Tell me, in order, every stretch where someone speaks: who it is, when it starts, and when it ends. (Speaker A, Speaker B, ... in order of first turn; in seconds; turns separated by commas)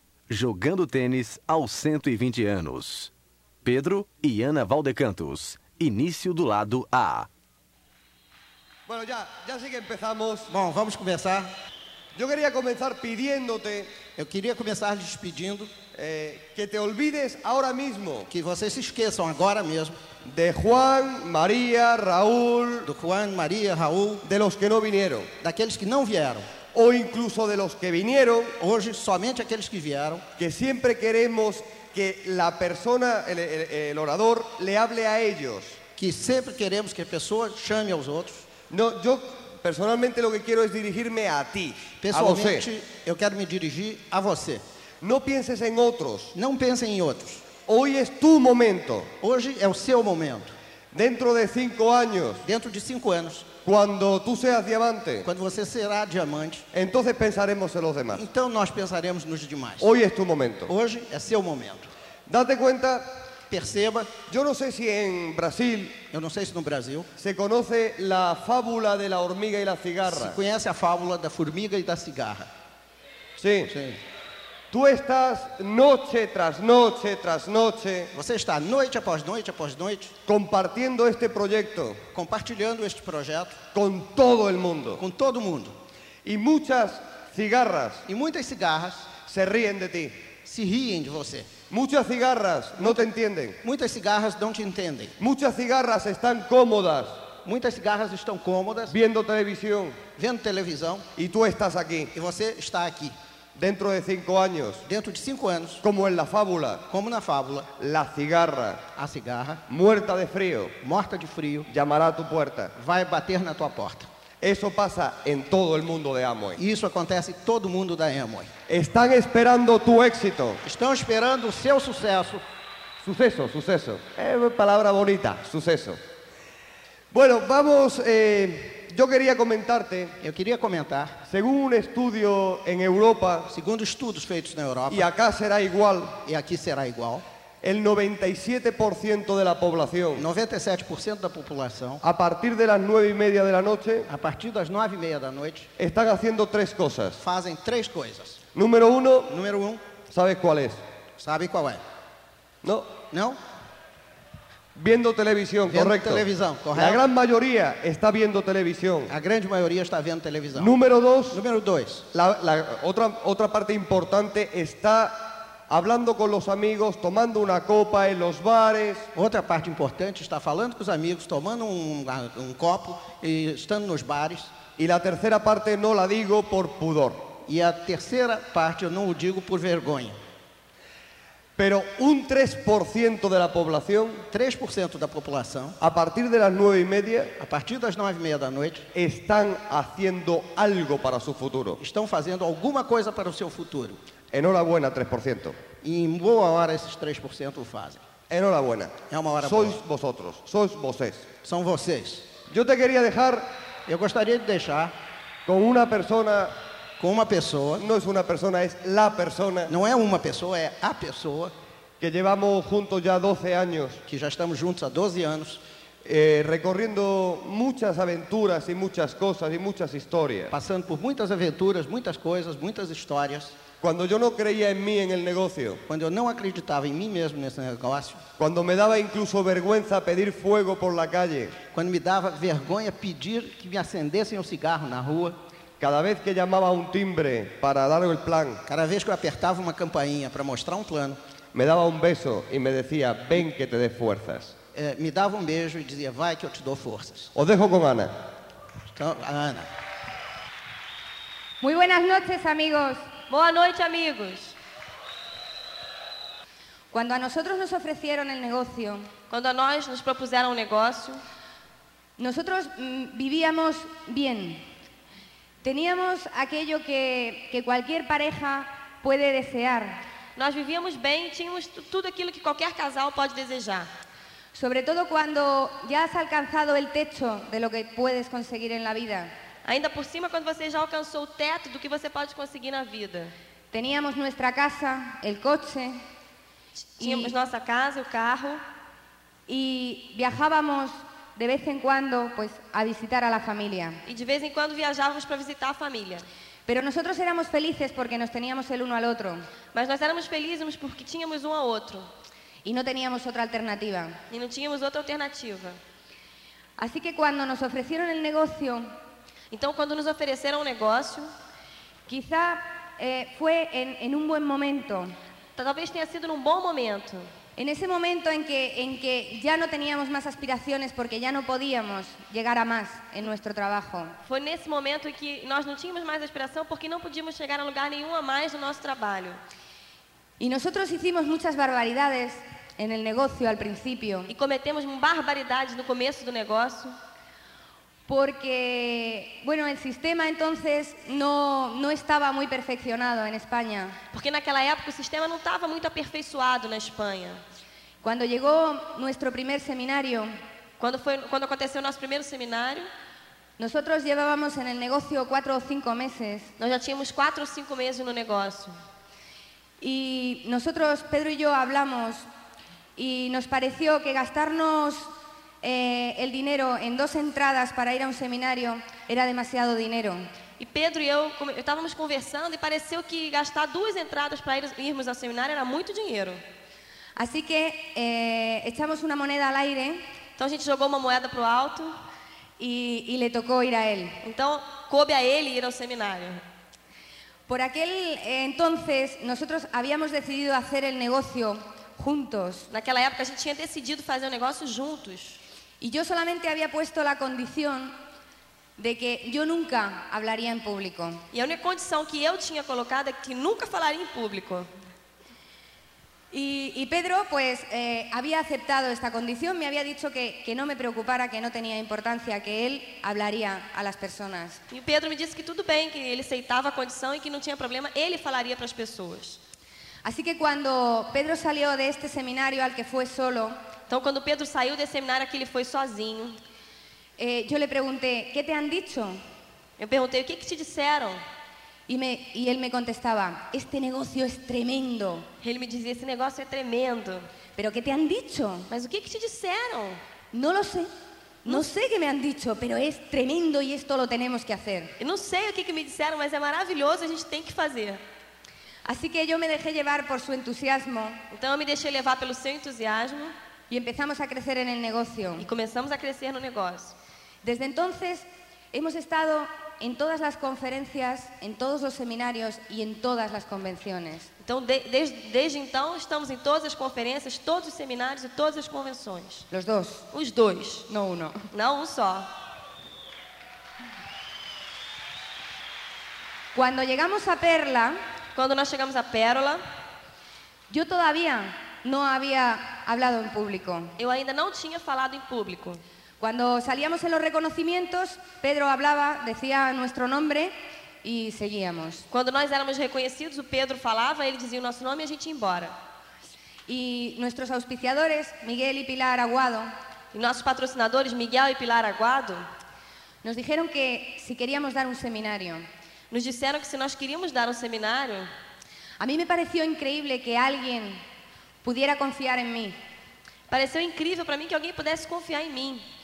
Speaker A: 0.3-3.1, Speaker A: 3.6-7.3, Speaker B: 8.9-10.5, Speaker C: 10.5-11.5, Speaker B: 12.2-13.9, Speaker C: 14.2-15.7, Speaker B: 15.9-18.3, Speaker C: 18.3-20.0, Speaker B: 20.3-22.9, Speaker C: 22.9-24.2, Speaker B: 24.2-25.3, Speaker C: 25.4-26.5, Speaker B: 26.7-28.6, Speaker C: 28.6-30.3, Speaker B: 30.4-35.8, Speaker C: 36.0-38.5, Speaker B: 38.7-42.7, Speaker C: 42.0-44.6, Speaker B: 45.0-46.3, Speaker C: 46.4-47.5, Speaker B: 47.7-49.1, Speaker C: 49.2-50.5, Speaker B: 50.9-52.4, Speaker C: 52.4-53.5, Speaker B: 53.6-55.3, Speaker C: 55.2-56.7, Speaker B: 56.7-58.2, Speaker C: 58.1-59.9, Speaker B: 59.8-60.7, Speaker C: 60.7-61.9, Speaker B: 62.3-63.1, Speaker C: 63.5-64.1, Speaker B: 64.3-66.0, Speaker C: 66.1-67.1, Speaker B: 67.2-70.4, Speaker C: 70.0-72.5, Speaker B: 73.4-73.7, Speaker C: 73.7-74.0, Speaker B: 74.7-78.1, Speaker C: 78.1-80.1, Speaker B: 80.3-82.0, Speaker C: 82.1-83.6, Speaker B: 83.7-85.0, Speaker C: 85.0-85.8, Speaker B: 86.2-88.0, Speaker C: 88.1-89.1, Speaker B: 89.2-90.3, Speaker C: 90.4-91.5, Speaker B: 91.7-93.6, Speaker C: 93.6-95.2, Speaker B: 95.2-97.2, Speaker C: 97.4-98.9, Speaker B: 98.9-100.0, Speaker C: 100.2-101.1, Speaker B: 101.2-102.1, Speaker C: 102.1-103.2, Speaker B: 103.6-104.8, Speaker C: 104.8-105.8, Speaker B: 105.8-106.8, Speaker C: 106.9-107.7, Speaker B: 107.8-108.8, Speaker C: 109.0-109.6, Speaker B: 109.7-110.8, Speaker C: 110.8-111.7, Speaker B: 111.7-112.7, Speaker C: 112.8-114.1, Speaker B: 114.4-116.6, Speaker C: 116.6-118.5, Speaker B: 118.7-120.6, Speaker C: 120.6-122.4, Speaker B: 123.0-126.0, Speaker B: 127.1-130.2, Speaker C: 130.2-131.2, Speaker B: 131.3-133.5, Speaker C: 133.5-135.1, Speaker B: 134.9-136.2, Speaker C: 136.2-137.2, Speaker B: 137.6-140.2, Speaker C: 140.2-142.0, Speaker B: 142.0-144.1, Speaker C: 144.1-145.7, Speaker B: 145.8-147.2, Speaker C: 147.2-148.4, Speaker B: 148.5-149.3, Speaker C: 149.3-149.8, Speaker B: 150.1-150.8, Speaker C: 151.2-151.8, Speaker B: 152.6-152.9, Speaker C: 153.1-153.4, Speaker B: 154.8-156.2, Speaker C: 155.7-157.0, Speaker B: 156.8-159.1, Speaker C: 159.1-160.8, Speaker B: 160.6-161.4, Speaker C: 161.3-162.1, Speaker B: 162.1-169.1, Speaker C: 169.2-174.5, Speaker B: 174.8-177.3, Speaker C: 177.5-180.2, Speaker B: 181.6-184.2, Speaker C: 184.3-185.8, Speaker B: 185.8-187.3, Speaker C: 187.4-188.9, Speaker B: 188.9-191.8, Speaker C: 191.8-194.0, Speaker B: 194.3-195.6, Speaker C: 195.8-198.0, Speaker B: 198.3-201.3, Speaker C: 199.1-199.8, Speaker C: 201.4-202.3, Speaker B: 202.5-203.5, Speaker C: 203.9-204.9, Speaker B: 205.5-206.5, Speaker C: 207.0-207.9, Speaker B: 207.8-209.7, Speaker C: 209.7-211.5, Speaker B: 212.0-214.0, Speaker C: 214.1-215.6, Speaker B: 216.0-220.5, Speaker C: 220.5-223.6, Speaker B: 223.8-225.8, Speaker C: 225.9-228.2, Speaker B: 228.4-231.6, Speaker C: 231.7-235.4, Speaker B: 235.8-238.6, Speaker C: 238.7-241.2, Speaker B: 241.5-244.6, Speaker C: 244.7-247.3, Speaker B: 247.3-248.1, Speaker C: 248.9-249.7, Speaker D: 251.6-253.0, Speaker E: 253.3-254.6, Speaker D: 256.9-259.1, Speaker E: 259.3-261.2, Speaker D: 262.2-264.6, Speaker D: 265.6-270.0, Speaker E: 270.4-273.9, Speaker D: 274.5-279.3, Speaker E: 279.6-283.3, Speaker D: 283.7-286.0, Speaker E: 286.8-288.6, Speaker D: 287.0-287.3, Speaker D: 289.5-294.0, Speaker E: 294.1-296.3, Speaker D: 296.7-299.4, Speaker E: 299.7-302.1, Speaker D: 302.6-304.2, Speaker E: 304.3-305.8, Speaker D: 306.8-308.9, Speaker E: 309.5-311.3, Speaker D: 312.1-315.1, Speaker E: 315.6-317.3, Speaker D: 317.6-324.2, Speaker E: 324.3-329.4, Speaker D: 330.4-334.3, Speaker E: 334.3-336.9, Speaker D: 338.1-344.0, Speaker E: 344.1-347.4, Speaker D: 348.0-350.3, Speaker E: 350.8-352.9, Speaker D: 353.6-356.5, Speaker E: 356.6-358.7, Speaker D: 359.8-362.2, Speaker D: 363.0-370.3, Speaker E: 370.6-376.4, Speaker D: 377.2-380.0, Speaker E: 380.4-381.9, Speaker D: 382.6-384.2, Speaker E: 384.2-386.4, Speaker D: 387.5-392.7, Speaker E: 392.7-395.4, Speaker D: 395.8-397.9, Speaker D: 398.8-401.2, Speaker E: 401.3-404.7, Speaker D: 406.3-414.6, Speaker E: 414.7-419.4, Speaker D: 420.0-423.6, Speaker E: 423.9-426.4, Speaker D: 427.2-429.2, Speaker E: 429.8-431.2, Speaker D: 431.9-435.3, Speaker E: 435.4-437.3, Speaker D: 437.6-438.7, Speaker E: 438.7-440.0, Speaker D: 440.3-440.9, Speaker D: 441.4-444.9, Speaker E: 445.0-448.0, Speaker D: 448.9-451.2, Speaker E: 451.3-453.3, Speaker D: 453.7-455.5, Speaker E: 455.4-456.9, Speaker D: 457.4-464.3, Speaker E: 464.4-469.5, Speaker D: 469.5-470.1, Speaker E: 470.1-470.9, Speaker D: 470.9-471.5, Speaker E: 471.5-472.3, Speaker D: 476.6-478.0, Speaker E: 478.4-479.6, Speaker D: 480.7-483.9, Speaker E: 484.0-485.8, Speaker D: 486.2-492.1, Speaker E: 492.1-495.8, Speaker D: 496.7-499.7, Speaker E: 500.1-502.4, Speaker D: 503.2-505.7, Speaker E: 506.1-508.3, Speaker D: 509.0-511.0, Speaker D: 511.6-512.8, Speaker E: 513.5-515.9